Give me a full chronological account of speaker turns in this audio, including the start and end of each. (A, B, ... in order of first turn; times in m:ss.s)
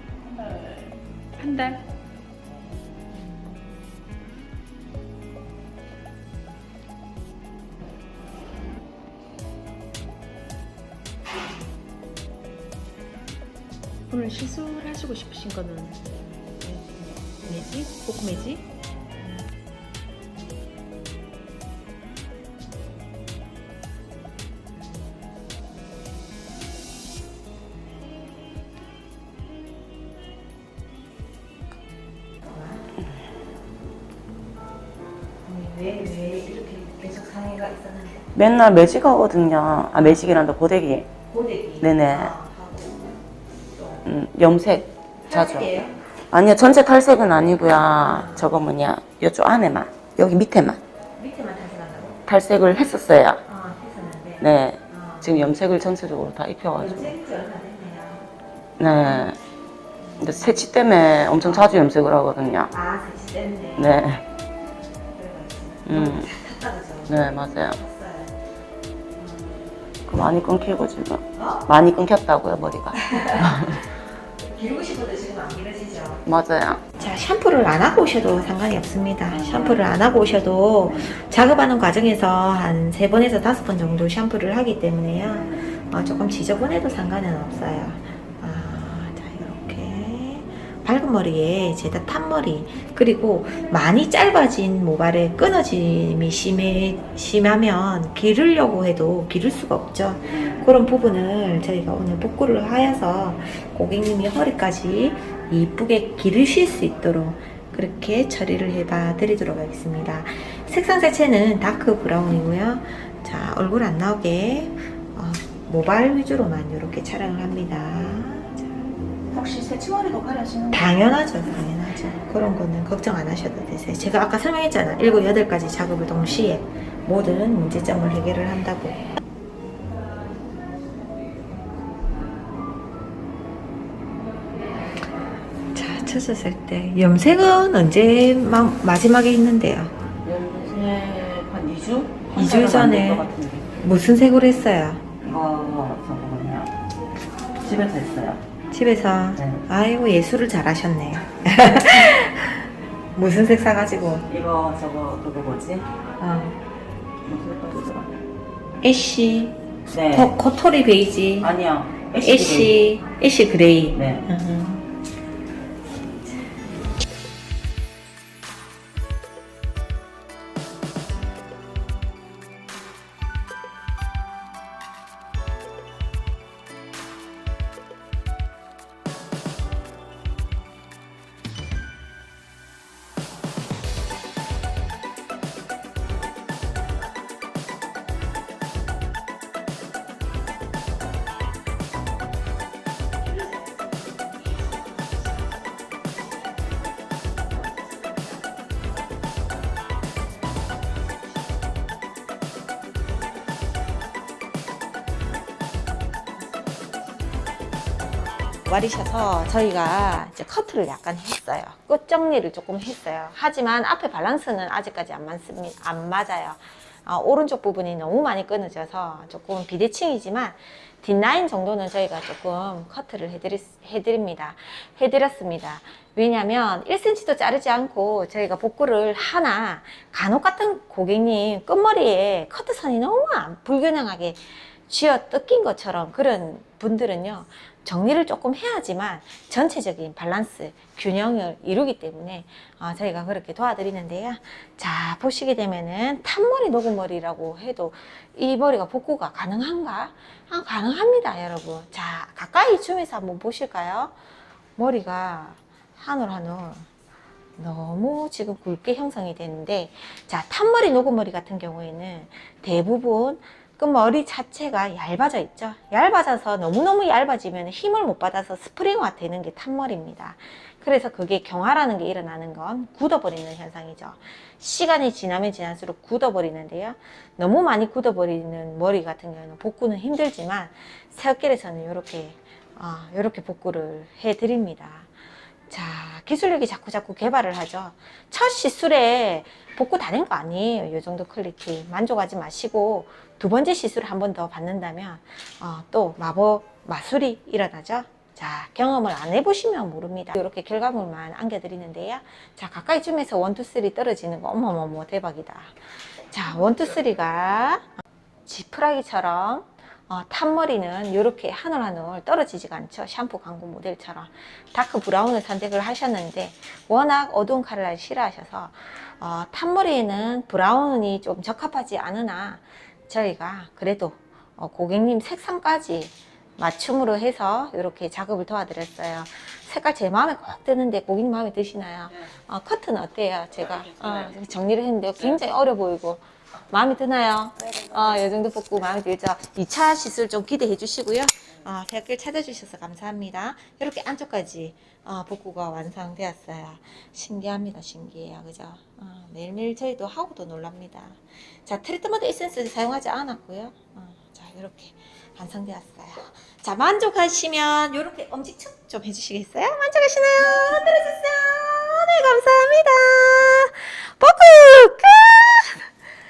0:00.3-0:00.9 A
0:01.4-0:01.8 B
0:14.1-0:16.0 B
0:16.6-0:18.6 B
0:32.4-0:32.8 C
0:35.4-0:38.4 C
0:38.3-0:41.1 A
0:41.3-0:44.0 C
0:41.8-0:42.3 A
0:44.0-0:45.7 A
0:45.2-0:46.0 C
0:46.3-0:50.8 A
0:48.0-0:48.5 C
0:51.2-0:52.2 C
0:52.2-0:53.4 A
0:53.4-0:55.6 C
0:54.4-0:57.1 A
0:56.8-0:58.3 C
0:58.8-0:59.4 A
1:00.0-1:00.7 C
1:00.2-1:02.7 A
1:01.2-1:01.8 C
1:02.7-1:04.1 C
1:03.8-1:04.2 A
1:05.1-1:08.4 C
1:05.8-1:06.3 A
1:07.1-1:07.8 A
1:09.2-1:09.7 C
1:10.0-1:13.8 A
1:11.3-1:11.7 C
1:12.9-1:16.2 C
1:16.2-1:16.8 A
1:16.9-1:58.9 C
1:19.3-1:20.2 A
1:20.9-1:21.1 A
1:40.4-1:40.6 A
1:59.3-2:00.8 A
2:00.7-2:09.0 C
2:15.7-2:19.9 C
2:20.2-2:23.8 A
2:22.3-2:25.0 C
2:25.2-2:26.7 A
2:27.6-2:28.4 A
2:28.7-2:34.3 C
2:29.4-2:29.6 A
2:34.3-2:35.9 A
2:36.2-2:36.6 C
2:37.2-2:38.1 A
2:38.8-2:39.6 C
2:39.9-2:40.3 A
2:40.1-2:41.5 C
2:41.4-2:42.8 A
2:42.2-2:44.8 C
2:43.9-2:44.3 A
3:28.6-4:14.2 C
4:14.8-4:16.9 C
4:17.6-4:45.1 C
4:45.7-6:05.9 C
5:33.8-5:34.2 A